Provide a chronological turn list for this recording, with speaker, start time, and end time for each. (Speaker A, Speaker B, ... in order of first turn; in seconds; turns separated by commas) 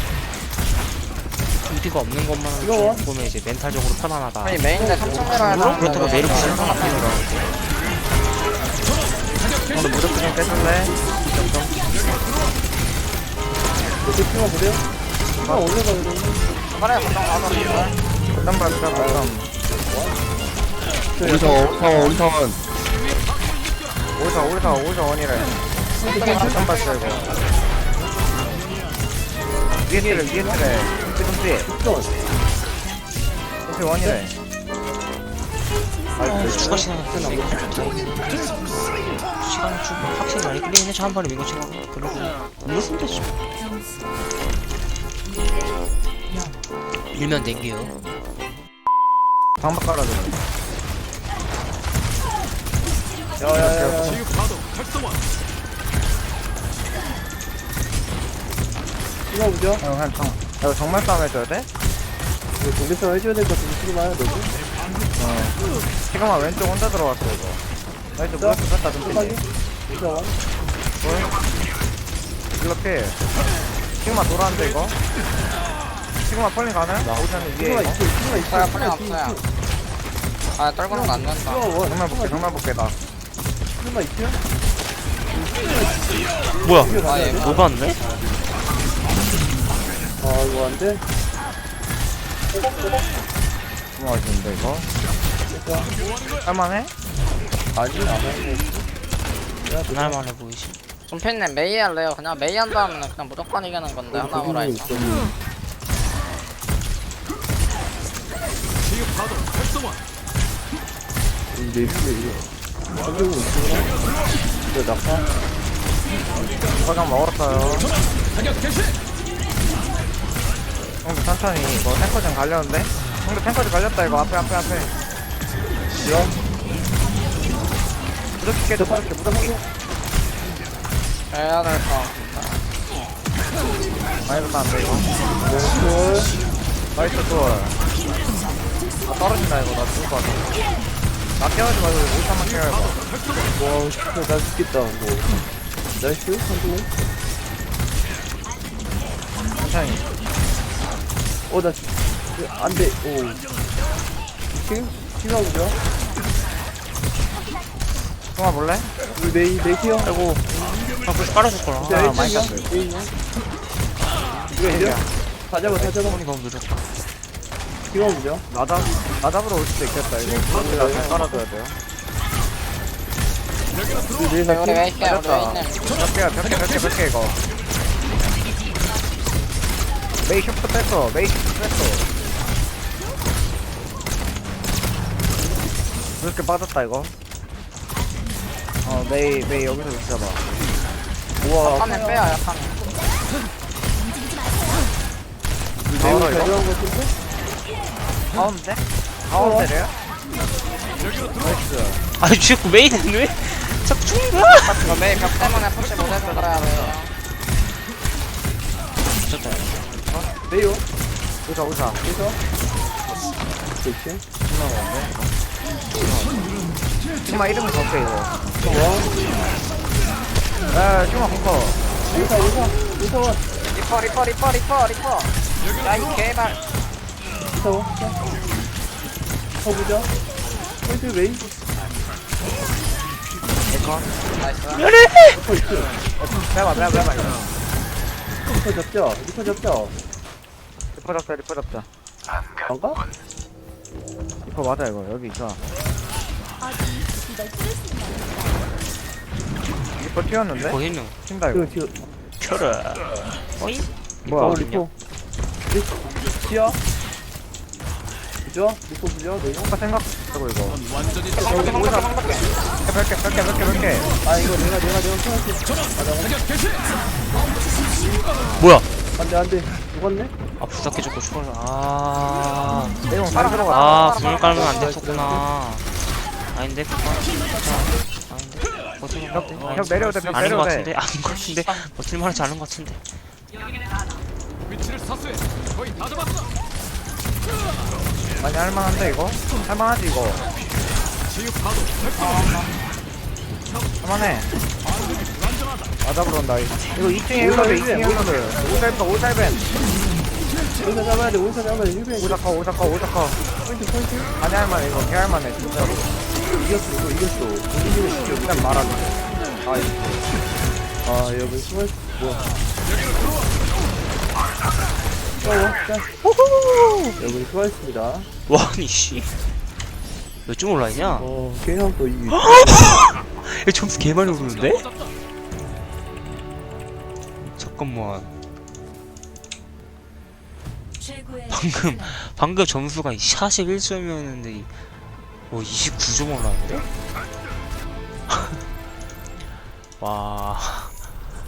Speaker A: 1.6-7.5, Speaker B: 2.6-3.0, Speaker C: 4.4-7.0, Speaker B: 4.8-5.4, Speaker D: 6.1-7.2, Speaker D: 9.7-11.9, Speaker B: 14.0-14.8, Speaker B: 15.4-16.4, Speaker D: 15.4-15.7, Speaker C: 16.7-18.0, Speaker D: 18.3-19.5, Speaker B: 18.8-20.3, Speaker B: 21.1-22.2, Speaker D: 24.2-25.5, Speaker B: 26.0-26.7, Speaker C: 26.0-27.1, Speaker D: 26.4-27.3, Speaker D: 29.9-31.7, Speaker B: 29.9-30.6, Speaker B: 31.6-32.1, Speaker D: 33.6-34.3, Speaker D: 36.2-36.8, Speaker A: 36.2-38.5, Speaker B: 36.4-37.9, Speaker A: 39.4-43.3, Speaker A: 47.1-48.0, Speaker D: 49.6-50.4, Speaker B: 53.4-54.2, Speaker D: 53.5-54.2, Speaker B: 59.3-59.8, Speaker D: 59.8-61.7, Speaker B: 62.5-64.5, Speaker D: 65.2-65.6, Speaker D: 66.1-67.6, Speaker D: 68.1-69.4, Speaker B: 68.4-70.3, Speaker D: 71.0-71.3, Speaker D: 72.6-73.2, Speaker D: 74.0-75.0, Speaker D: 76.2-78.0, Speaker A: 77.0-77.5, Speaker B: 77.6-79.4, Speaker C: 78.3-79.4, Speaker C: 80.6-81.7, Speaker B: 80.9-82.6, Speaker D: 81.8-82.9, Speaker B: 83.8-84.4, Speaker B: 85.3-86.3, Speaker A: 86.6-88.0, Speaker B: 86.8-87.6, Speaker C: 87.0-87.6, Speaker B: 90.2-91.0, Speaker D: 94.0-94.9, Speaker B: 95.5-95.9, Speaker D: 96.4-96.9, Speaker B: 97.7-98.9, Speaker B: 99.7-100.2, Speaker A: 99.9-100.8, Speaker C: 101.1-105.1, Speaker B: 104.1-105.2, Speaker B: 111.5-112.4, Speaker B: 112.9-114.0, Speaker B: 114.7-115.2, Speaker D: 116.8-117.9, Speaker D: 121.0-124.9, Speaker B: 126.0-126.4, Speaker D: 128.4-129.6, Speaker B: 128.8-129.6, Speaker C: 131.3-132.6, Speaker D: 134.2-135.1, Speaker B: 135.4-136.3, Speaker D: 136.9-137.8, Speaker D: 139.1-140.6, Speaker D: 141.4-143.0, Speaker B: 143.6-145.3, Speaker B: 146.0-146.9, Speaker D: 149.6-150.1, Speaker B: 151.5-153.4, Speaker B: 154.5-155.8, Speaker D: 158.3-158.9, Speaker B: 159.1-160.1, Speaker A: 160.0-160.5, Speaker A: 161.0-162.4, Speaker B: 161.8-163.1, Speaker D: 161.9-162.8, Speaker B: 164.5-166.2, Speaker D: 164.5-165.1, Speaker A: 165.7-166.9, Speaker B: 167.9-168.4, Speaker D: 168.5-171.8, Speaker B: 170.5-171.4, Speaker B: 174.2-174.9, Speaker C: 174.4-175.9, Speaker D: 175.1-177.4, Speaker D: 180.2-182.1, Speaker D: 186.2-187.1, Speaker D: 188.8-190.4, Speaker B: 191.4-192.4, Speaker C: 191.6-192.8, Speaker B: 195.9-197.1, Speaker D: 195.9-196.6, Speaker D: 198.3-199.9, Speaker B: 199.3-199.7, Speaker D: 201.2-202.0, Speaker A: 202.2-205.2, Speaker C: 204.7-207.1, Speaker D: 206.0-206.9, Speaker A: 209.2-209.8, Speaker B: 210.5-210.8, Speaker D: 211.4-212.0, Speaker B: 212.0-212.4, Speaker B: 213.8-214.2, Speaker D: 214.4-215.3, Speaker D: 216.0-216.4, Speaker D: 217.2-218.4, Speaker B: 218.6-219.1, Speaker D: 220.7-221.8, Speaker B: 222.1-223.4, Speaker C: 223.7-226.6, Speaker B: 227.5-228.2, Speaker B: 229.6-230.1, Speaker B: 230.8-231.5, Speaker D: 233.7-234.1, Speaker C: 234.4-234.9, Speaker A: 234.7-235.4, Speaker B: 235.3-235.9, Speaker D: 236.2-237.5, Speaker B: 238.5-239.9, Speaker D: 240.9-241.9, Speaker B: 242.7-243.0, Speaker D: 244.4-245.6, Speaker D: 250.0-251.8, Speaker A: 250.6-251.2, Speaker B: 251.5-251.9, Speaker A: 252.4-254.9, Speaker D: 254.2-254.7, Speaker B: 254.3-254.9, Speaker B: 255.7-256.8, Speaker B: 258.4-259.7, Speaker D: 259.6-260.8, Speaker C: 261.3-262.5, Speaker D: 261.4-262.2, Speaker D: 262.9-264.1, Speaker B: 264.2-266.5, Speaker A: 268.6-268.9, Speaker B: 269.1-270.3, Speaker A: 270.6-275.9, Speaker D: 273.1-274.1, Speaker C: 273.3-274.9, Speaker B: 274.4-275.4, Speaker A: 276.5-283.0, Speaker D: 279.3-280.9, Speaker D: 288.4-290.4, Speaker C: 292.1-292.7, Speaker D: 294.0-294.5, Speaker D: 296.0-299.6, Speaker B: 297.4-298.4, Speaker B: 300.8-302.4, Speaker D: 302.1-303.4, Speaker B: 303.6-304.3, Speaker D: 304.4-306.1, Speaker B: 306.5-309.0, Speaker D: 308.4-310.2, Speaker B: 311.0-312.4, Speaker B: 315.4-316.1, Speaker A: 316.2-317.2, Speaker B: 317.2-318.3, Speaker A: 318.5-319.3, Speaker A: 320.5-321.3, Speaker B: 321.2-323.0, Speaker A: 322.3-324.9, Speaker A: 327.5-328.3, Speaker A: 331.5-334.8, Speaker A: 335.5-336.9, Speaker A: 338.3-338.6, Speaker A: 340.0-341.0